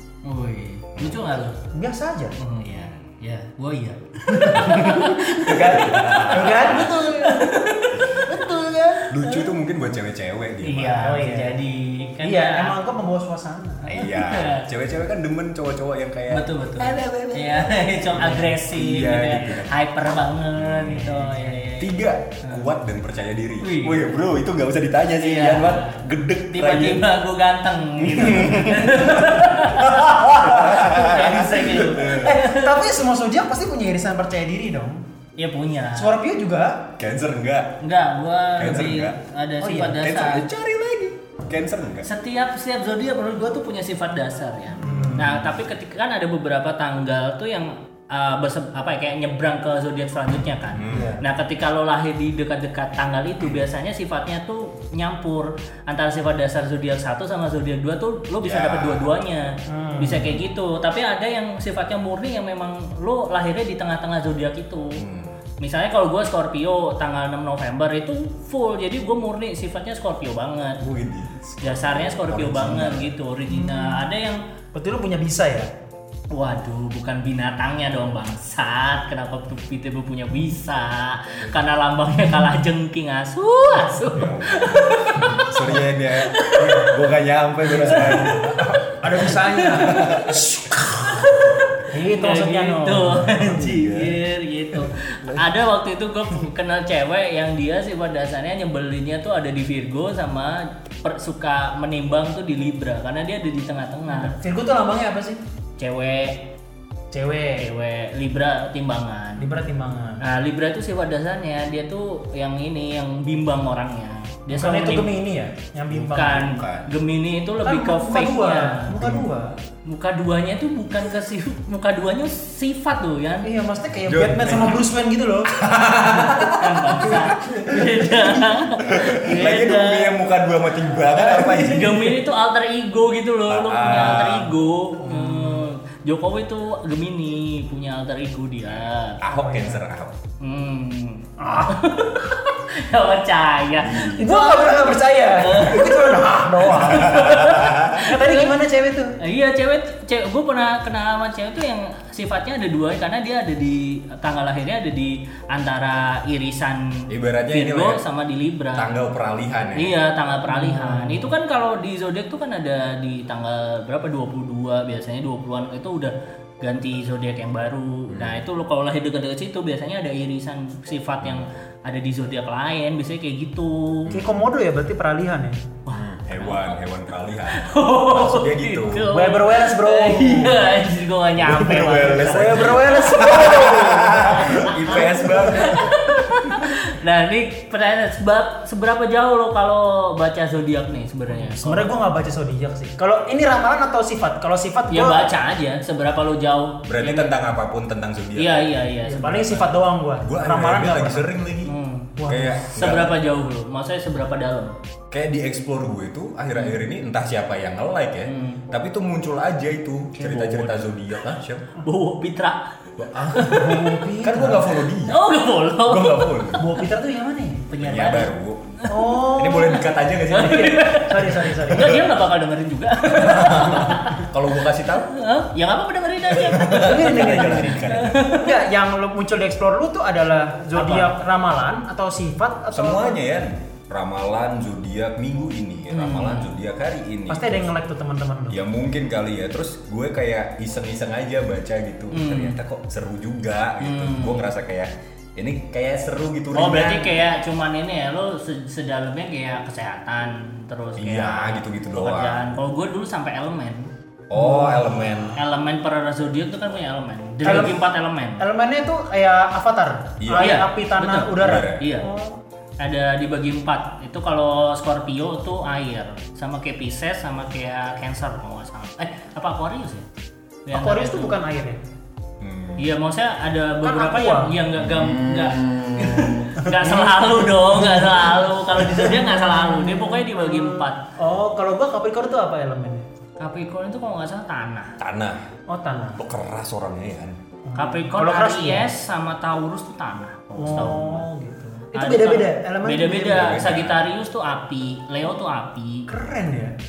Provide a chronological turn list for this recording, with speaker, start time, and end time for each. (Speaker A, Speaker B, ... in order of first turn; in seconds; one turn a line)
Speaker A: 0.2-1.6
Speaker B: 1.0-1.3
Speaker C: 1.7-2.4
Speaker A: 2.4-9.5
Speaker B: 2.6-3.0
Speaker C: 4.3-7.8
Speaker B: 4.6-7.1
Speaker B: 8.0-8.3
Speaker C: 8.3-9.1
Speaker B: 9.1-11.2
Speaker A: 10.6-12.8
Speaker C: 11.0-11.6
Speaker C: 12.2-13.9
Speaker B: 13.8-19.8
Speaker A: 13.9-14.7
Speaker A: 16.3-22.7
Speaker B: 20.6-27.1
Speaker A: 23.6-24.1
Speaker A: 25.2-32.8
Speaker B: 28.0-32.4
Speaker C: 29.8-31.3
Speaker C: 32.0-35.0
Speaker A: 35.4-36.1
Speaker C: 36.0-36.9
Speaker B: 37.0-37.8
Speaker A: 37.8-40.4
Speaker B: 38.6-39.2
Speaker C: 39.6-40.0
Speaker B: 40.0-42.1
Speaker A: 42.0-65.0
Speaker B: 44.8-45.4
Speaker C: 44.8-45.4
Speaker B: 50.7-51.2
Speaker C: 50.9-51.2
Speaker B: 58.4-59.1
Speaker C: 59.7-60.4
Speaker B: 65.0-65.4
Speaker A: 65.6-70.8
Speaker B: 70.8-73.1
Speaker A: 71.6-74.4
Speaker C: 73.5-74.0
Speaker C: 74.7-75.7
Speaker A: 76.3-85.5
Speaker B: 84.1-90.4
Speaker A: 86.2-86.9
Speaker A: 87.8-88.3
Speaker C: 87.8-94.2
Speaker A: 89.6-90.0
Speaker A: 91.1-104.4
Speaker C: 104.1-105.4
Speaker A: 105.8-106.5
Speaker C: 107.1-107.7
Speaker A: 107.6-109.5
Speaker C: 109.4-110.2
Speaker A: 110.2-115.1
Speaker C: 114.5-116.5
Speaker B: 115.9-116.9
Speaker A: 116.1-118.9
Speaker C: 117.7-119.5
Speaker B: 119.0-119.3
Speaker A: 119.9-123.5
Speaker C: 123.4-125.6
Speaker B: 124.0-124.9
Speaker B: 125.5-132.0
Speaker C: 126.1-128.1
Speaker A: 126.5-130.2
Speaker C: 131.2-132.1
Speaker A: 131.3-139.2
Speaker B: 133.5-134.6
Speaker C: 135.0-135.7
Speaker B: 138.7-140.2
Speaker C: 139.3-139.8
Speaker A: 140.4-148.5
Speaker C: 141.4-141.9
Speaker B: 143.8-144.3
Speaker C: 144.1-149.2
Speaker B: 146.8-148.0
Speaker A: 149.2-158.9
Speaker B: 157.1-158.0
Speaker B: 158.8-159.9
Speaker A: 159.8-174.1
Speaker C: 160.5-161.3
Speaker B: 168.1-168.4
Speaker B: 174.1-174.4
Speaker C: 174.1-175.6
Speaker A: 175.9-176.8
Speaker B: 175.9-179.1
Speaker A: 177.5-183.7
Speaker C: 179.1-180.7
Speaker B: 181.4-186.0
Speaker C: 181.7-185.7
Speaker A: 184.4-191.9
Speaker C: 191.3-195.3
Speaker A: 194.9-197.3
Speaker B: 196.8-198.7
Speaker A: 198.4-199.7
Speaker C: 199.1-201.3
Speaker B: 200.2-201.7
Speaker A: 201.7-202.1
Speaker C: 202.2-202.6
Speaker B: 202.3-203.2
Speaker A: 202.7-204.8
Speaker B: 205.1-211.7
Speaker A: 208.2-208.7
Speaker A: 210.1-211.0
Speaker A: 211.8-212.8
Speaker B: 213.0-215.2
Speaker A: 213.3-213.8
Speaker C: 213.5-214.8
Speaker A: 215.1-216.6
Speaker B: 215.8-216.7
Speaker C: 216.6-217.6
Speaker A: 217.7-219.0
Speaker B: 217.8-220.8
Speaker C: 218.9-222.0
Speaker A: 220.3-224.3
Speaker B: 221.7-222.1
Speaker B: 223.1-225.2
Speaker A: 225.1-228.6
Speaker B: 226.3-228.3
Speaker C: 226.7-233.2
Speaker A: 230.8-231.1
Speaker B: 232.7-237.7
Speaker A: 235.9-236.5
Speaker C: 237.3-238.6
Speaker B: 238.5-247.2
Speaker A: 242.1-242.6
Speaker A: 243.8-244.5
Speaker A: 246.5-258.4
Speaker B: 251.0-252.5
Speaker B: 254.3-255.4
Speaker C: 254.4-254.8
Speaker C: 257.4-262.4
Speaker B: 260.2-260.6
Speaker A: 260.3-262.1
Speaker B: 261.4-261.8
Speaker A: 262.8-270.1
Speaker A: 270.7-271.4
Speaker C: 270.7-271.8
Speaker B: 272.4-272.9
Speaker A: 272.8-281.0
Speaker C: 273.8-274.5
Speaker B: 274.8-276.6
Speaker C: 276.6-283.1
Speaker A: 283.4-284.9
Speaker B: 285.0-285.4
Speaker C: 285.7-286.2
Speaker B: 286.2-287.4
Speaker C: 287.6-288.9
Speaker A: 287.8-291.3
Speaker C: 290.6-293.6
Speaker A: 291.9-296.1
Speaker B: 293.3-294.0
Speaker C: 296.1-296.8